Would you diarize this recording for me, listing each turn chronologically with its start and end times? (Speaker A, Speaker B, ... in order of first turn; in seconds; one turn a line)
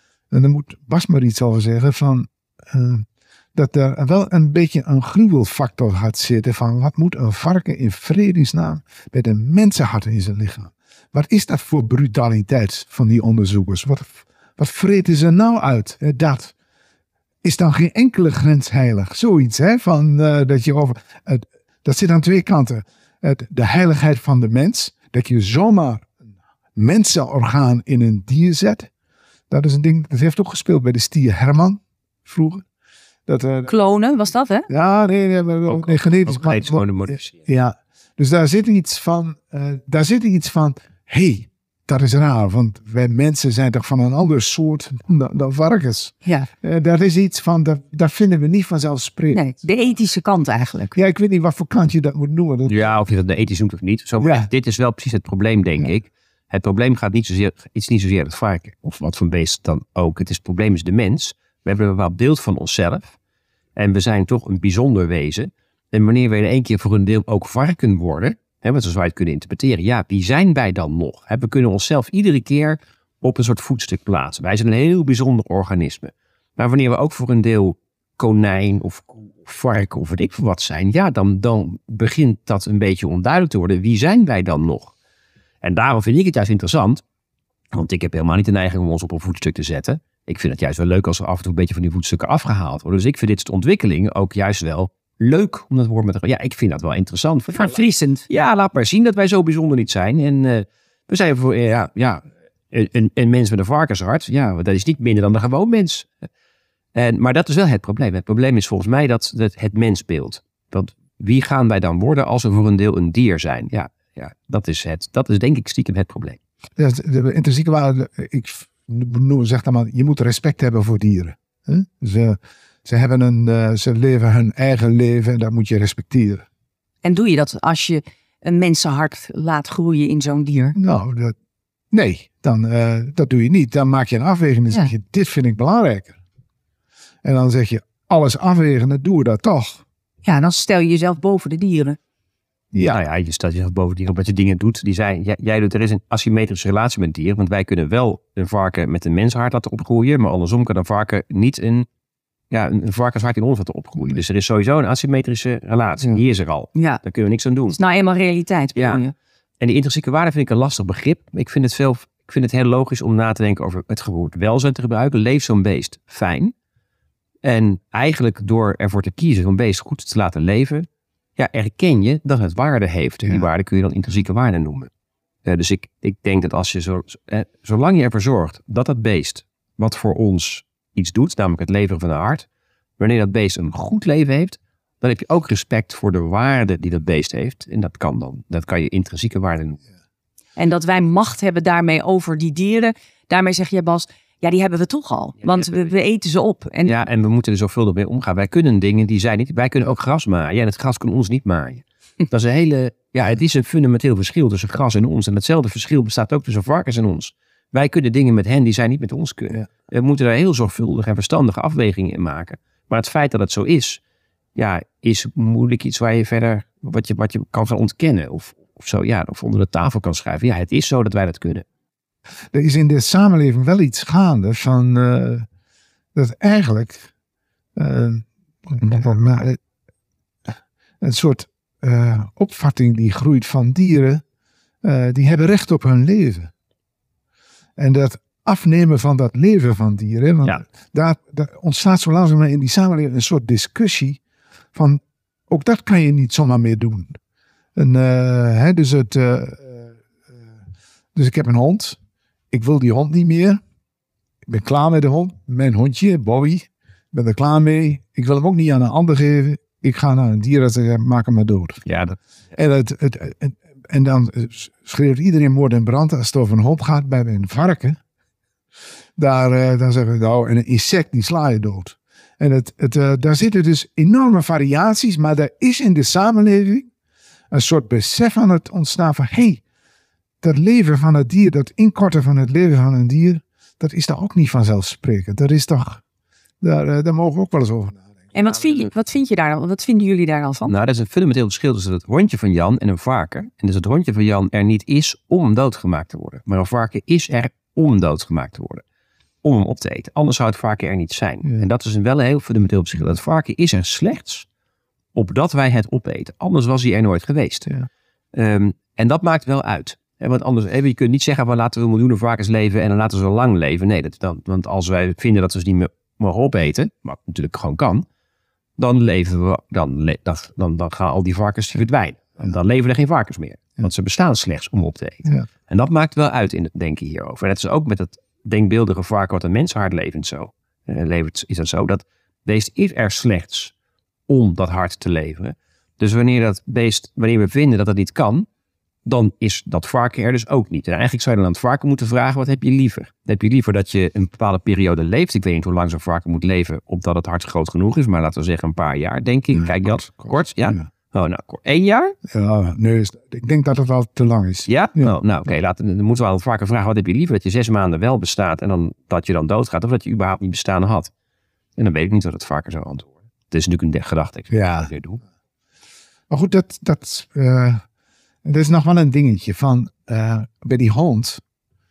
Speaker A: 0.3-16.5
Speaker A: 17.4-26.2
Speaker A: 26.8-28.9
Speaker A: 29.5-32.6
Speaker A: 33.3-33.7
Speaker B: 33.7-34.7
Speaker A: 34.7-49.5
Speaker C: 35.7-37.4
Speaker B: 49.3-51.0
Speaker A: 51.0-52.8
Speaker C: 52.7-63.2
Speaker A: 54.2-54.5
Speaker C: 63.8-84.9
Speaker C: 85.6-87.0
Speaker C: 87.7-106.1
Speaker B: 97.5-98.3
Speaker C: 106.9-116.4
Speaker A: 116.8-126.5
Speaker B: 127.0-130.8
Speaker A: 130.8-131.3
Speaker A: 131.9-136.2
Speaker A: 137.2-139.8
Speaker B: 140.2-142.0
Speaker A: 142.7-143.0
Speaker C: 142.9-151.9
Speaker C: 152.5-157.8
Speaker B: 156.8-157.0
Speaker B: 157.7-159.1
Speaker C: 158.8-159.0
Speaker C: 159.6-166.5
Speaker C: 167.4-174.9
Speaker C: 175.4-182.5
Speaker C: 183.0-189.8
Speaker B: 190.6-197.0
Speaker C: 195.5-195.8
Speaker C: 196.9-214.0
Speaker C: 214.6-221.7
Speaker A: 222.5-225.5
Speaker A: 226.2-227.1
Speaker A: 227.8-229.6
Speaker A: 231.0-234.2
Speaker A: 234.8-236.5
Speaker A: 237.8-244.2
Speaker A: 244.7-247.2
Speaker A: 247.8-250.3
Speaker A: 251.2-252.0
Speaker A: 252.5-253.6
Speaker A: 254.5-261.8
Speaker C: 261.9-262.2
Speaker A: 262.6-268.0
Speaker A: 269.2-276.9
Speaker A: 277.5-279.6
Speaker A: 280.4-286.0
Speaker A: 286.6-288.0
Speaker B: 288.3-290.7
Speaker C: 290.7-298.8
Speaker C: 299.4-304.5
Speaker C: 305.1-307.8
Speaker C: 308.3-318.1
Speaker C: 318.8-333.7
Speaker C: 334.3-338.5
Speaker C: 339.1-352.2
Speaker A: 349.6-350.8
Speaker A: 352.3-355.1
Speaker C: 354.7-361.1
Speaker C: 361.8-365.2
Speaker A: 364.5-364.9
Speaker A: 366.3-367.8
Speaker A: 368.4-371.4